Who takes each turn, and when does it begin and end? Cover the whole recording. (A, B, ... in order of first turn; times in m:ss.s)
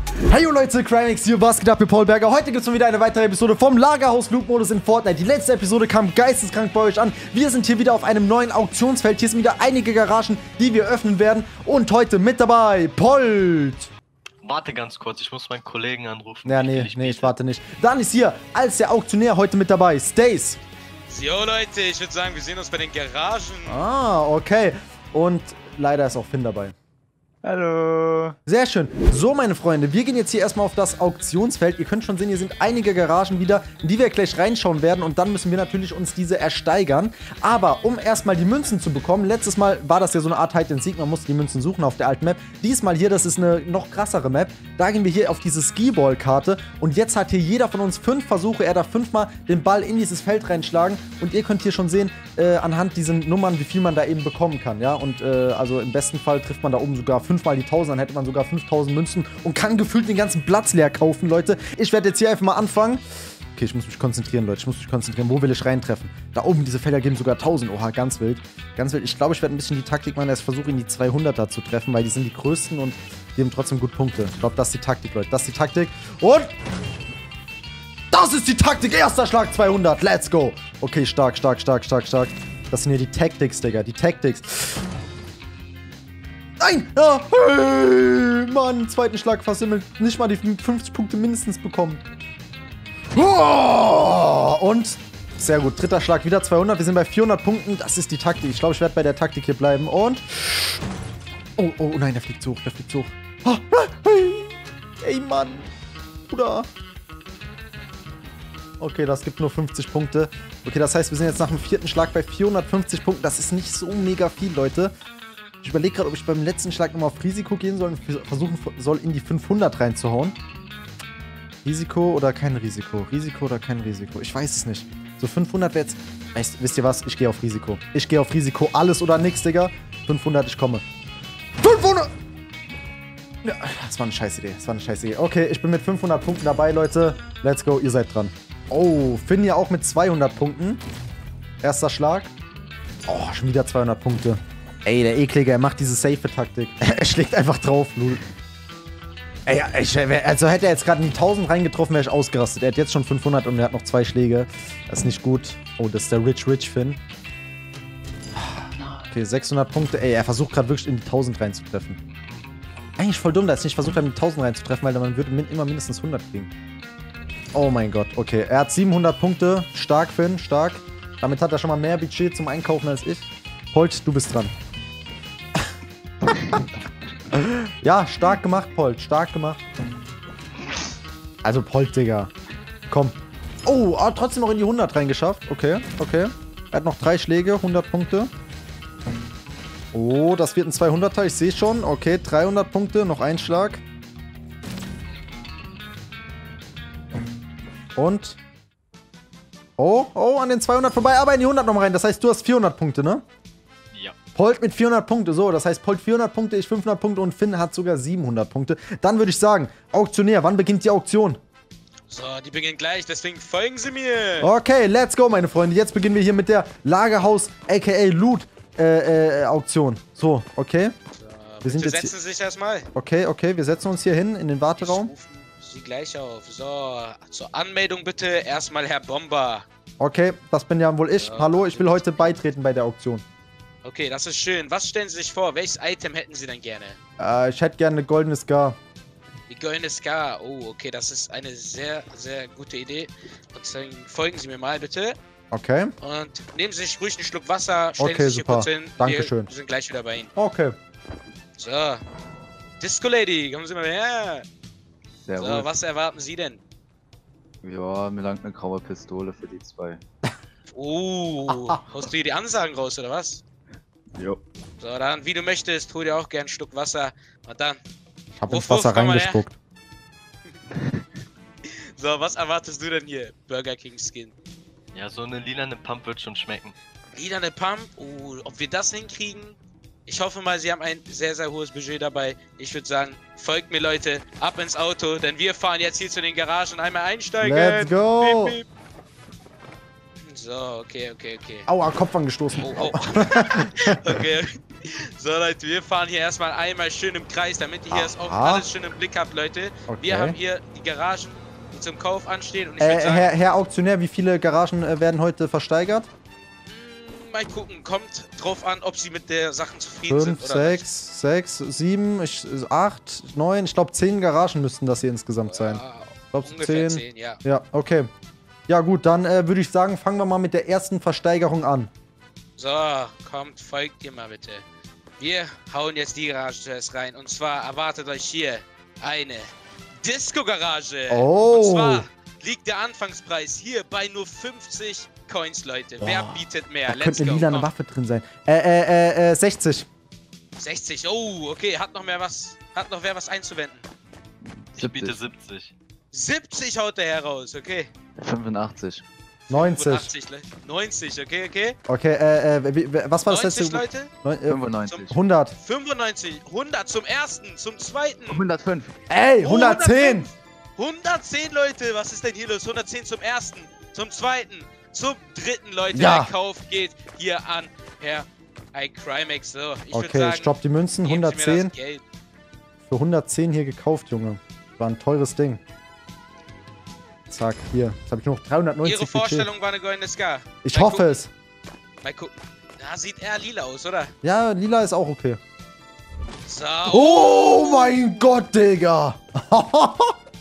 0:00.2-0:13.9 A
0:14.4-0:17.3 B
0:16.4-0:20.6 A
0:21.1-0:23.8 C
0:23.6-0:26.7 A
0:27.4-0:28.4 D
0:28.4-1:16.5 A
1:18.1-1:24.8 A
1:26.6-1:32.0 A
1:33.1-1:40.8 A
1:41.6-1:45.7 A
1:46.3-1:46.7 A
1:48.8-1:54.9 A
1:55.6-2:00.4 A
2:01.6-2:10.8 A
2:11.6-2:12.1 A
2:13.4-2:20.8 A
2:21.6-2:22.3 A
2:23.1-2:28.2 A
2:29.4-2:37.0 A
2:38.3-2:42.0 A
2:38.8-2:39.0 D
2:43.0-2:46.5 A
2:47.5-2:54.5 A
2:57.3-2:59.6 A
3:01.4-3:02.3 A
3:02.9-3:08.3 A
3:09.9-3:13.8 A
3:18.0-3:18.4 A
3:19.8-3:23.2 A
3:24.3-3:31.4 A
3:32.1-3:34.5 C
3:34.4-3:40.9 A
3:41.1-3:42.9 C
3:41.6-3:42.1 A
3:42.9-3:45.1 A
3:44.8-3:49.6 C
3:50.0-3:53.2 A
3:51.2-3:52.4 C
3:53.8-3:57.0 C
3:57.2-3:58.8 A
3:59.5-4:05.2 C
4:05.5-4:05.9 A
4:06.0-4:10.3 C
4:08.0-4:09.5 A
4:10.4-4:10.7 A
4:11.6-4:12.0 C
4:12.8-4:14.4 C
4:15.2-4:15.7 D
4:15.4-4:16.6 C
4:17.6-4:20.0 D
4:20.7-4:23.4 C
4:21.5-4:21.8 A
4:24.1-4:24.4 D
4:24.8-4:27.8 C
4:28.4-4:29.5 A
4:28.5-4:29.4 C
4:31.6-4:34.3 C
4:34.9-4:36.7 B
4:37.1-4:48.6 C
4:47.4-4:48.6 A
4:50.2-4:51.7 C
4:51.7-4:54.0 A
4:52.6-5:03.3 C
4:57.9-4:58.7 A
4:59.9-5:00.4 A
5:02.8-5:06.1 A
5:06.7-5:10.8 C
5:10.1-5:15.8 A
5:15.5-5:17.4 C
5:16.3-5:18.1 A
5:18.7-5:21.9 A
5:22.6-5:24.6 C
5:25.2-5:37.7 C
5:31.1-5:32.0 A
5:36.0-5:39.9 A
5:40.6-5:43.8 C
5:44.4-5:45.2 D
5:44.8-5:45.7 B
5:46.1-5:47.9 C
5:48.2-5:49.0 D
5:49.5-5:51.8 C
5:49.5-5:50.1 A
5:51.8-5:55.6 A
5:53.3-5:54.1 C
5:54.5-5:55.2 D
5:54.9-5:58.4 C
5:58.3-5:59.0 D
5:59.1-6:00.3 A
5:59.4-6:10.5 C
6:05.9-6:06.3 A
6:09.9-6:11.7 A
6:11.0-6:12.0 C
6:12.9-6:15.6 A
6:17.3-6:19.5 A
6:18.8-6:21.2 C
6:20.6-6:21.3 A
6:22.0-6:24.1 C
6:24.2-6:25.4 A
6:26.4-6:28.2 C
6:26.8-6:30.1 A